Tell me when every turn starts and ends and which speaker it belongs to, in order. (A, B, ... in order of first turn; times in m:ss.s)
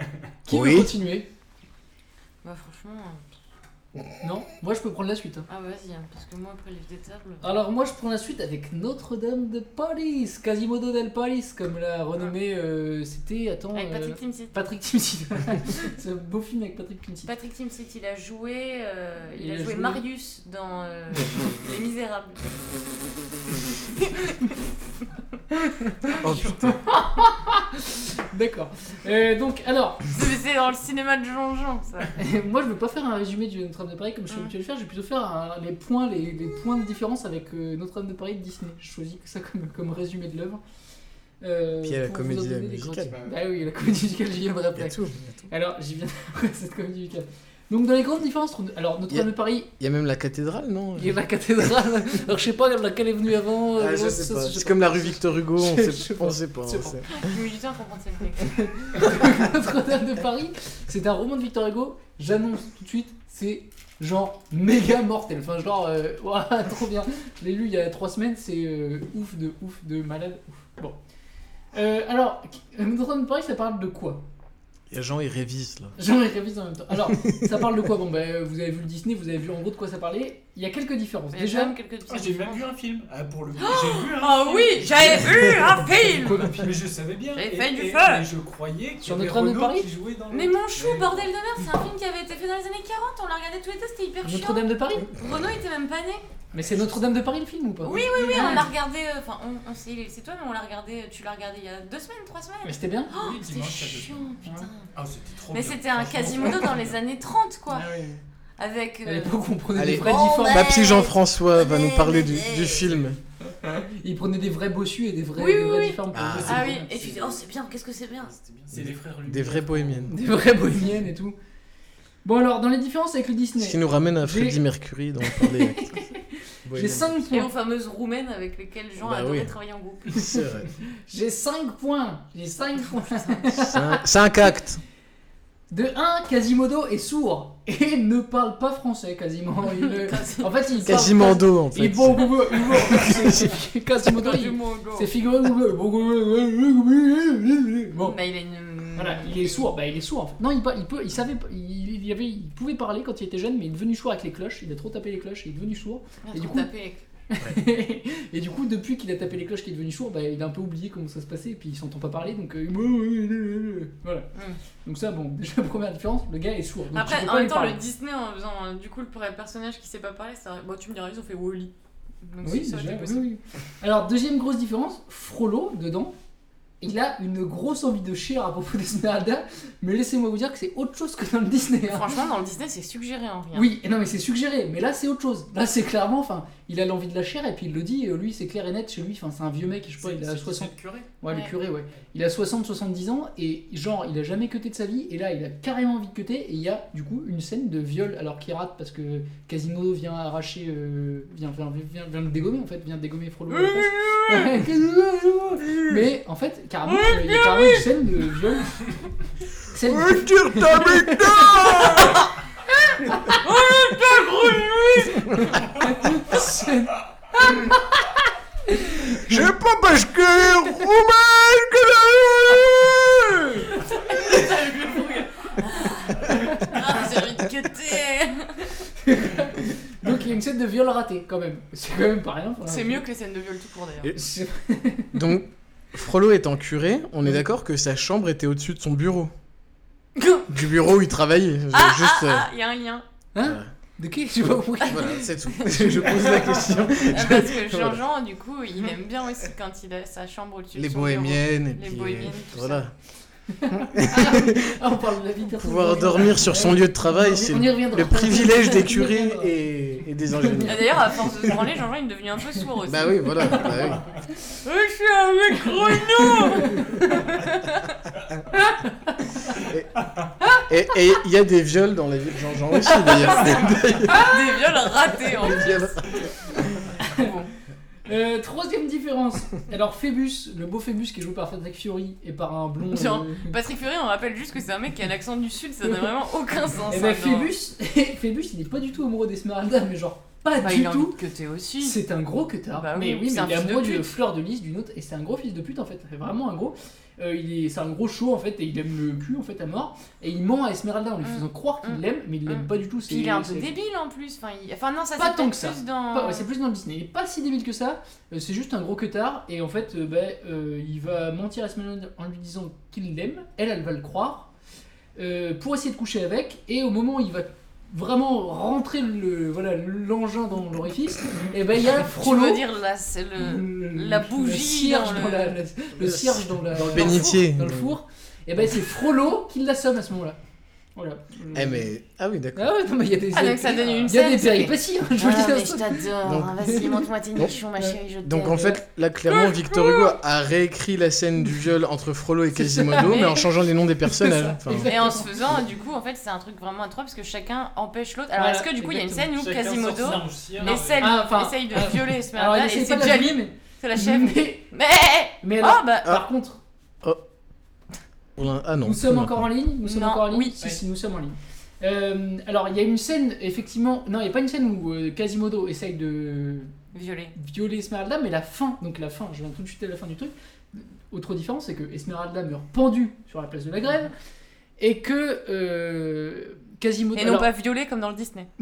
0:00.4-0:01.3 A
0:00.5-0:00.9 B
0:02.4-0:03.2 C
0:04.2-0:05.4 A
0:05.5-0:07.4 C
0:07.4-0:17.3 A
0:13.7-0:14.6 C
0:17.2-0:22.4 C
0:19.3-0:20.0 A
0:24.0-0:24.5 C
0:26.1-0:30.0 A
0:26.2-0:26.8 B
0:30.1-0:32.1 C
0:32.2-0:40.6 A
0:41.4-0:44.9 A
0:41.8-0:43.2 B
0:44.7-0:45.5 B
0:45.5-0:49.7 A
0:49.1-0:51.2 B
0:51.0-0:57.0 A
0:53.7-0:57.3 B
0:57.1-0:58.5 C
0:58.5-1:11.0 A
1:11.7-1:14.2 A
1:14.9-1:16.0 B
1:16.0-1:21.8 A
1:17.2-1:17.6 B
1:21.3-1:22.6 C
1:22.1-1:26.0 D
1:23.6-1:26.6 C
1:25.8-1:26.8 A
1:26.5-1:31.3 D
1:27.4-1:28.3 C
1:29.0-1:29.9 A
1:30.3-1:36.2 C
1:34.2-1:35.1 A
1:36.5-1:38.7 A
1:36.6-1:36.9 D
1:37.8-1:44.9 C
1:37.9-1:38.7 D
1:42.6-1:43.1 A
1:43.1-1:44.3 D
1:44.9-1:46.9 D
1:45.5-1:47.9 C
1:47.7-1:48.2 A
1:48.6-1:49.3 C
1:49.0-1:50.7 A
1:49.7-1:53.2 B
1:49.9-1:52.9 C
1:53.6-1:57.2 A
1:55.4-1:58.3 C
1:56.1-1:56.7 B
1:56.9-1:57.4 D
1:58.2-2:00.2 D
1:58.7-2:00.2 B
2:00.1-2:01.4 A
2:02.2-2:04.6 A
2:03.6-2:06.0 B
2:05.3-2:07.5 A
2:06.6-2:07.2 B
2:07.3-2:10.1 C
2:09.0-2:09.5 B
2:10.1-2:10.7 B
2:11.1-2:14.0 A
2:13.1-2:13.5 C
2:13.5-2:14.8 B
2:15.7-2:28.2 A
2:19.7-2:21.4 C
2:20.8-2:23.6 B
2:24.0-2:25.1 C
2:28.0-2:29.6 C
2:29.0-2:36.7 A
2:36.2-2:37.0 C
2:37.3-2:44.3 A
2:44.8-2:47.8 A
2:46.9-2:51.7 C
2:52.2-2:53.3 C
2:52.4-2:56.2 A
2:56.8-3:02.1 A
3:01.9-3:03.7 C
3:03.5-3:28.9 A
3:10.0-3:11.1 D
3:23.5-3:24.5 C
3:26.9-3:27.8 C
3:29.7-3:32.2 A
3:29.7-3:32.2 B
3:33.0-3:33.4 A
3:33.4-3:35.2 C
3:34.0-3:35.2 D
3:36.1-3:38.0 A
3:38.7-3:39.4 A
3:39.2-3:43.7 B
3:44.0-3:48.6 C
3:46.5-3:46.8 A
3:49.0-3:53.0 A
3:52.6-3:54.1 C
3:54.1-3:55.2 A
3:55.1-3:59.3 B
4:00.2-4:00.5 C
4:00.5-4:02.5 B
4:01.7-4:03.0 C
4:03.3-4:07.2 A
4:03.4-4:03.7 B
4:04.8-4:12.8 C
4:04.9-4:08.0 B
4:10.7-4:12.9 B
4:13.5-4:19.5 A
4:13.7-4:14.7 B
4:15.5-4:21.0 B
4:20.3-4:20.9 A
4:20.6-4:23.7 C
4:22.9-4:24.0 B
4:24.6-4:28.0 C
4:26.5-4:27.1 A
4:28.6-4:29.1 A
4:29.6-4:30.0 B
4:30.7-4:34.3 B
4:33.1-4:36.0 C
4:35.3-4:36.9 B
4:37.1-4:37.5 C
4:38.0-4:43.6 A
4:42.9-4:47.5 C
4:46.9-4:51.2 A
4:50.6-4:52.0 C
4:51.8-5:03.7 A
4:52.7-4:54.1 C
5:01.2-5:06.5 C
5:05.2-5:14.5 A
5:15.2-5:22.6 A
5:22.1-5:25.6 C
5:23.4-5:30.4 A
5:26.0-5:27.9 B
5:27.0-5:27.3 C
5:31.0-5:31.9 A
5:31.5-5:32.8 B
5:32.6-5:37.0 A
5:33.3-5:40.1 C
5:36.2-5:36.6 B
5:38.2-5:45.2 B
5:42.5-5:43.5 A
5:43.0-5:43.3 C
5:44.0-5:45.4 A
5:44.7-5:56.1 C
5:48.4-5:49.3 A
5:49.4-5:51.2 D
5:50.6-5:54.6 A
5:55.4-5:56.6 A
5:58.4-5:59.5 B
5:58.8-6:06.7 A
5:59.8-6:00.6 C
6:06.9-6:07.3 C
6:07.4-6:14.1 A
6:14.8-6:17.5 A
6:17.1-6:18.5 C